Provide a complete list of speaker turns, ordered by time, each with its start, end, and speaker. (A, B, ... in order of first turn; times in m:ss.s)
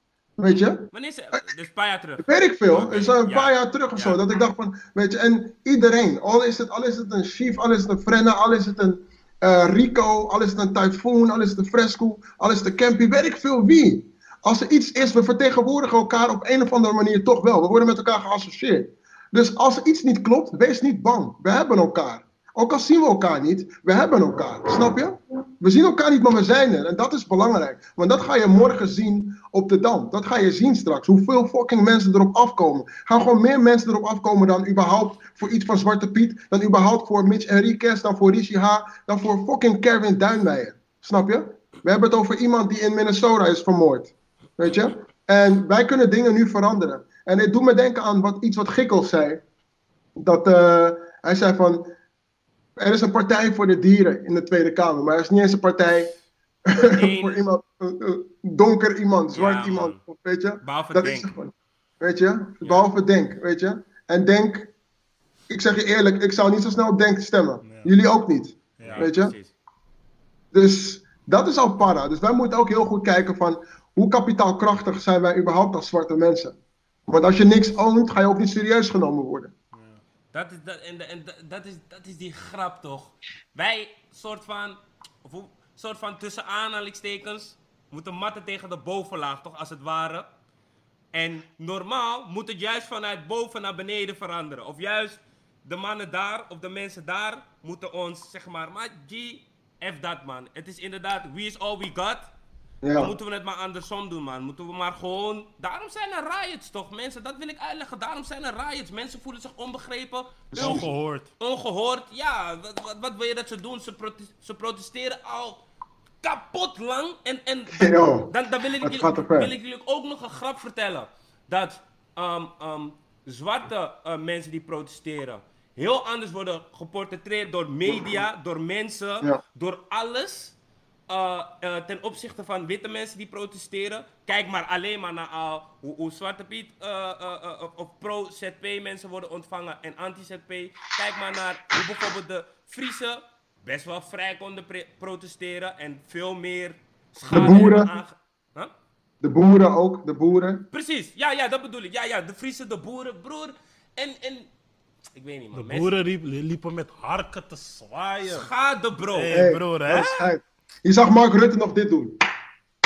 0:00.4-0:00.9 A
0:00.9-0:04.2 B
0:02.2-0:49.4 A
0:50.2-0:51.8 A
0:52.8-0:56.1 A
0:56.7-1:04.7 A
0:56.8-0:57.4 B
0:59.3-1:00.0 B
1:00.6-1:01.4 B
1:02.6-1:02.9 B
1:05.5-1:09.4 A
1:07.6-1:07.9 C
1:08.8-1:09.1 C
1:08.8-1:09.5 B
1:10.5-1:16.6 A
1:17.1-1:19.5 A
1:19.7-1:20.0 C
1:20.3-1:30.3 B
1:31.1-1:42.3 B
1:42.8-1:43.1 A
1:43.0-1:55.6 B
1:50.5-1:50.9 A
1:50.5-1:51.3 C
1:56.2-2:10.6 B
1:57.8-1:59.5 A
2:07.9-2:08.2 A
2:11.1-2:28.7 B
2:27.3-2:27.9 A
2:29.2-2:30.7 A
2:30.7-2:34.5 B
2:35.2-2:35.9 B
2:35.5-2:38.5 C
2:38.3-2:39.4 B
2:39.0-2:40.3 C
2:39.3-2:42.2 A